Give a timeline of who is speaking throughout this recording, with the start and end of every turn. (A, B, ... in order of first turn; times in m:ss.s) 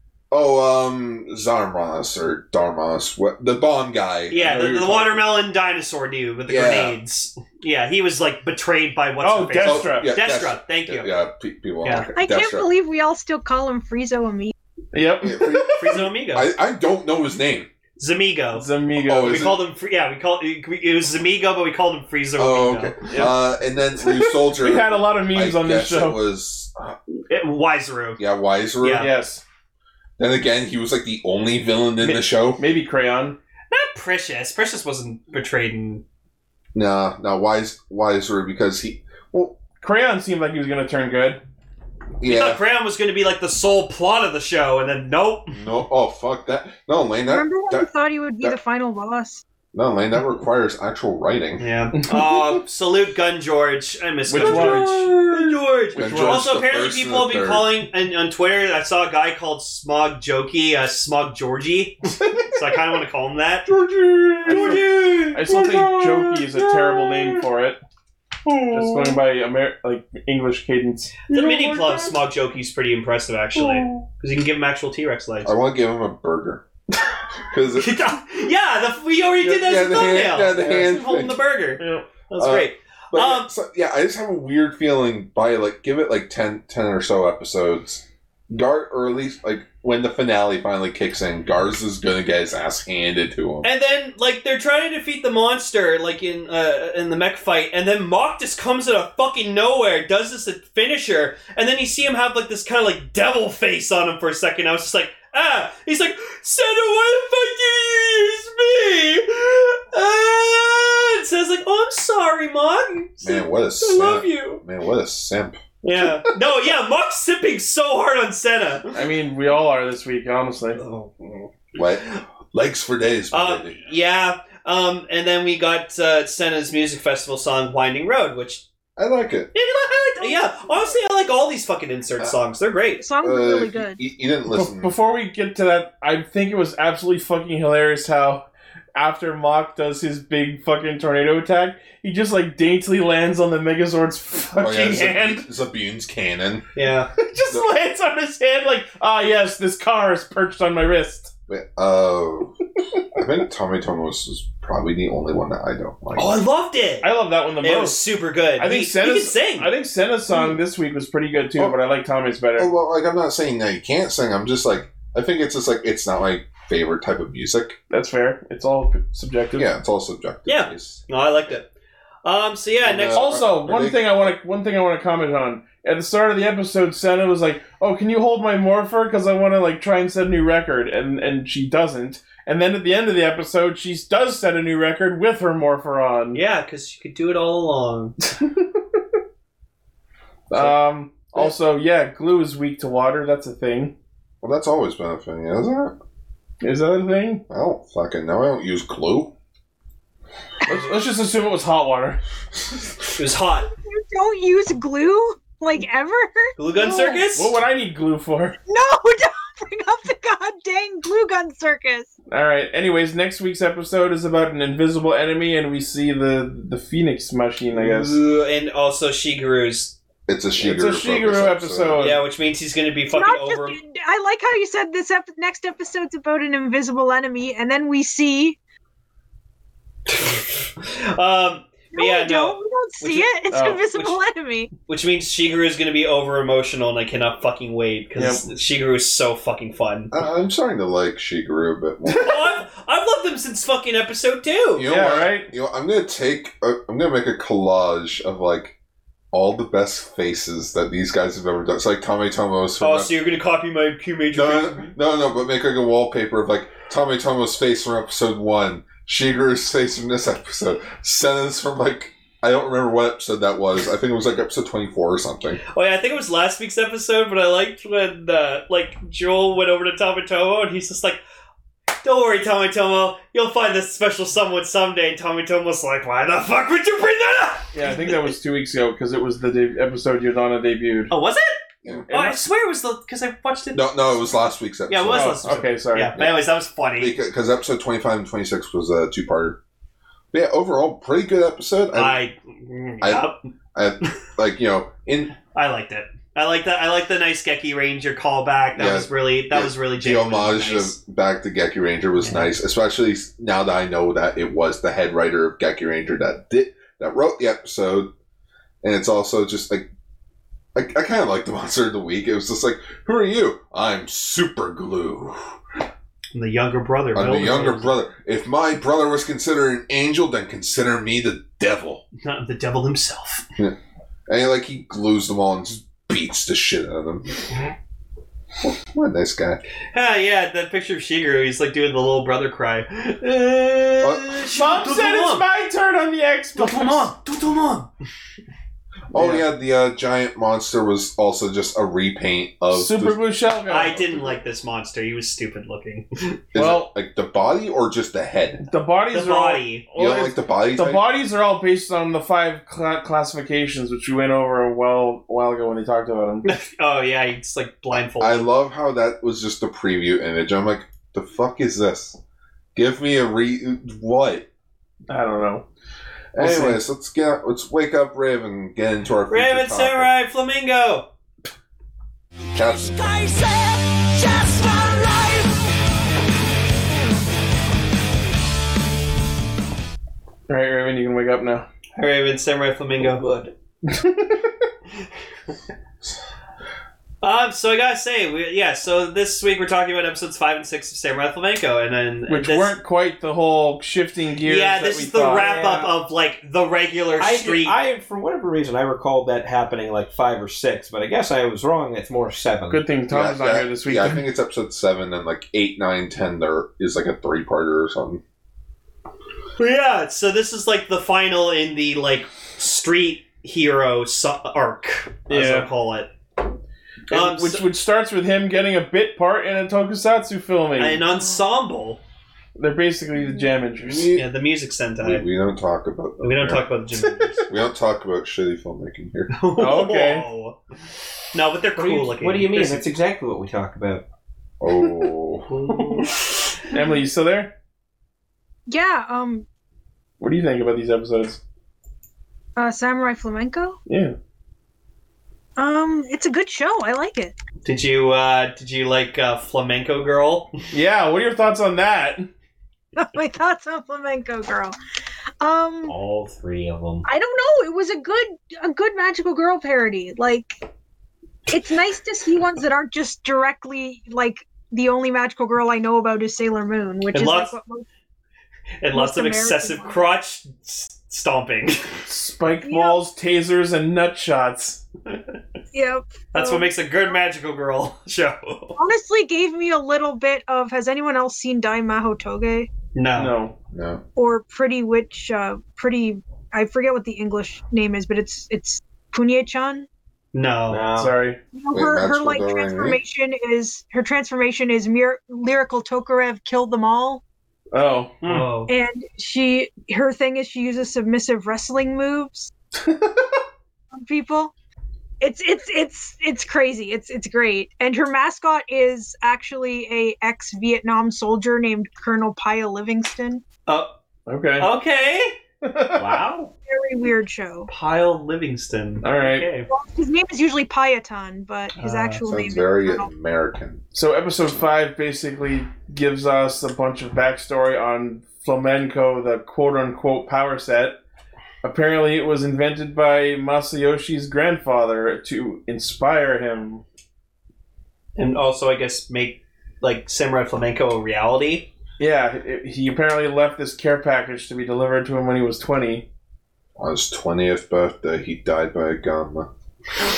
0:00.3-0:05.0 A
0:04.3-0:11.1 B
0:04.3-0:05.2 C
0:06.5-0:07.0 A
0:09.2-0:10.1 C
0:09.6-0:12.7 A
0:11.8-0:12.1 B
0:12.1-0:14.5 D
0:14.9-0:16.0 C
0:15.2-0:17.7 A
0:15.8-0:16.5 B
0:18.0-0:23.2 B
0:18.5-0:19.5 C
0:19.0-0:19.6 A
0:22.4-0:27.0 A
0:23.1-0:23.3 C
0:24.0-0:26.2 C
0:27.3-0:28.2 B
0:28.2-0:29.1 A
0:28.8-0:29.1 B
0:29.0-0:29.4 C
0:30.2-0:32.6 A
0:32.0-0:33.4 C
0:33.7-0:36.0 B
0:36.7-0:39.6 A
0:39.8-0:41.4 C
0:42.2-0:42.6 A
0:42.2-0:45.6 B
0:45.5-0:47.9 A
0:47.2-0:49.4 D
0:49.7-0:51.7 A
0:51.6-1:03.7 B
0:51.9-0:52.6 C
0:54.3-0:55.2 C
0:54.4-0:55.1 A
0:55.9-0:56.4 C
0:56.0-0:57.7 A
1:03.7-1:07.4 A
1:04.4-1:05.8 B
1:04.4-1:07.8 C
1:08.4-1:09.1 A
1:08.7-1:11.3 C
1:11.3-1:15.5 B
1:11.3-1:12.1 A
1:13.6-1:14.0 A
1:15.4-1:16.6 A
1:17.5-1:18.0 A
1:17.7-1:23.5 B
1:19.4-1:21.4 A
1:21.8-1:22.1 C
1:22.4-1:33.7 A
1:33.6-1:54.2 B
1:53.2-1:55.6 A
1:53.9-1:54.6 C
1:55.8-1:58.9 B
1:58.9-2:00.8 C
2:00.8-2:02.2 B
2:01.7-2:03.8 A
2:03.3-2:08.6 B
2:09.0-2:09.5 A
2:09.5-2:13.0 B
2:10.2-2:10.9 D
2:13.0-2:14.0 D
2:13.2-2:14.9 A
2:14.5-2:25.5 C
2:24.6-2:26.6 A
2:26.7-2:27.1 B
2:27.2-2:31.3 C
2:31.5-2:32.6 A
2:33.1-2:36.4 A
2:36.1-2:37.1 B
2:37.0-2:38.0 C
2:37.6-2:39.7 B
2:38.6-2:42.7 C
2:42.6-2:47.8 A
2:47.9-2:49.7 C
2:49.5-2:51.0 A
2:50.4-2:51.7 B
2:52.2-2:53.2 B
2:52.8-2:54.3 A
2:53.1-3:06.4 C
3:06.3-3:08.2 B
3:08.3-3:09.0 C
3:10.5-3:10.8 A
3:10.5-3:13.9 C
3:14.4-3:15.9 A
3:16.6-3:17.4 C
3:17.5-3:19.3 A
3:20.6-3:22.2 C
3:23.2-3:23.7 B
3:23.6-3:27.2 D
3:26.6-3:27.5 B
3:27.3-3:28.6 C
3:28.7-3:32.1 D
3:32.3-3:38.2 C
3:37.7-3:40.0 B
3:40.3-3:42.1 A
3:40.6-3:42.2 C
3:42.0-3:43.8 B
3:43.1-3:48.6 D
3:50.1-3:54.2 B
3:51.9-3:54.7 D
3:53.5-3:53.8 C
3:54.9-4:00.1 B
3:58.2-3:58.4 C
4:00.1-4:02.3 A
4:02.2-4:04.8 B
4:04.7-4:08.7 A
4:04.9-4:05.5 C
4:09.3-4:13.1 A
4:12.8-4:14.9 B
4:14.3-4:25.6 A
4:25.7-4:31.2 B
4:32.0-4:38.3 B
4:37.7-4:41.1 C
4:41.1-4:41.6 B
4:41.9-4:42.4 C
4:42.1-4:44.0 B
4:43.7-4:45.4 A
4:44.9-4:47.2 B
4:45.1-4:46.1 C
4:46.1-4:49.6 A
4:50.3-4:52.2 A
4:51.9-4:53.4 B
4:53.0-4:55.4 A
4:55.5-5:01.0 B
4:58.7-5:08.1 A
5:02.2-5:02.5 B
5:08.8-5:09.9 A
5:10.7-5:15.5 A
5:16.3-5:17.9 B
5:17.1-5:22.0 A
5:22.2-5:23.4 B
5:23.6-5:27.4 A
5:28.6-5:29.6 A
5:29.9-5:35.4 B
5:34.0-5:34.3 A
5:34.5-5:37.1 C
5:36.6-5:37.9 B
5:39.1-5:43.2 A
5:39.1-5:39.4 C
5:42.7-5:44.0 C
5:43.7-5:46.4 B
5:44.0-5:44.3 A
5:46.5-5:48.7 A
5:46.6-5:46.9 C
5:48.7-5:56.5 C
5:49.1-5:49.8 B
5:50.0-5:51.0 A
5:56.4-5:58.4 B
5:57.9-6:02.2 A
6:02.7-6:04.5 A
6:05.1-6:05.7 C
6:06.3-6:10.1 A
6:06.4-6:06.8 C
6:09.3-6:11.1 B
6:12.5-6:13.2 A
6:12.6-6:15.5 E
6:20.5-6:21.6 C
6:22.0-6:23.3 B
6:23.0-6:23.5 F
6:23.9-6:24.6 C
6:27.2-6:32.8 B
6:32.3-6:35.5 C
6:34.4-6:37.8 B
6:35.3-6:35.9 F
6:37.2-6:42.8 F
6:42.7-6:44.2 C
6:43.1-6:48.2 A
6:49.6-6:56.1 B
6:55.3-6:55.7 C
6:57.1-7:01.0 C
6:57.1-6:57.6 B
7:00.8-7:02.0 B
7:02.6-7:04.1 C
7:03.8-7:04.2 A
7:04.1-7:05.2 B
7:05.0-7:06.6 A
7:06.2-7:07.5 B
7:07.5-7:09.3 A
7:09.3-7:10.6 B
7:09.6-7:10.3 C
7:11.3-7:12.9 B
7:11.8-7:14.0 F
7:14.6-7:16.1 A
7:16.7-7:17.5 C
7:18.7-7:19.4 D
7:20.2-7:21.4 C
7:22.6-7:23.8 D
7:23.9-7:24.1 C
7:25.6-7:27.3 D
7:27.6-7:30.6 B
7:30.7-7:32.3 C
7:33.0-7:34.8 D
7:35.4-7:36.0 D
7:35.9-7:37.0 F
7:37.0-7:40.5 D
7:41.5-7:47.8 D
7:47.1-7:47.5 B
7:48.8-7:52.0 B
7:48.9-7:50.0 D
7:52.0-7:54.8 C
7:52.6-7:53.0 D
7:55.7-7:57.1 D
7:56.3-7:58.8 B
7:58.8-8:02.7 D
8:02.9-8:03.3 B
8:03.2-8:03.6 C
8:03.7-8:04.0 A
8:04.2-8:09.9 D
8:10.3-8:10.8 B
8:10.7-8:11.2 F
8:10.9-8:11.4 C
8:11.5-8:17.2 D
8:11.7-8:13.0 A
8:17.7-8:18.4 C
8:18.2-8:18.7 B
8:18.7-8:22.5 D
8:22.8-8:23.4 C
8:23.9-8:24.5 D
8:25.2-8:33.4 D
8:33.7-8:33.9 B
8:34.3-8:34.7 C
8:34.6-8:35.4 B
8:35.6-8:36.2 C
8:35.9-8:36.5 F
8:36.6-8:37.7 D
8:37.7-8:39.7 B
8:39.0-8:39.5 C
8:39.7-8:43.1 D
8:41.8-8:42.2 B
8:42.2-8:43.8 A
8:43.9-8:51.0 C
8:51.6-8:56.8 C
8:58.2-9:01.7 B
9:02.0-9:06.0 C
9:06.8-9:09.5 A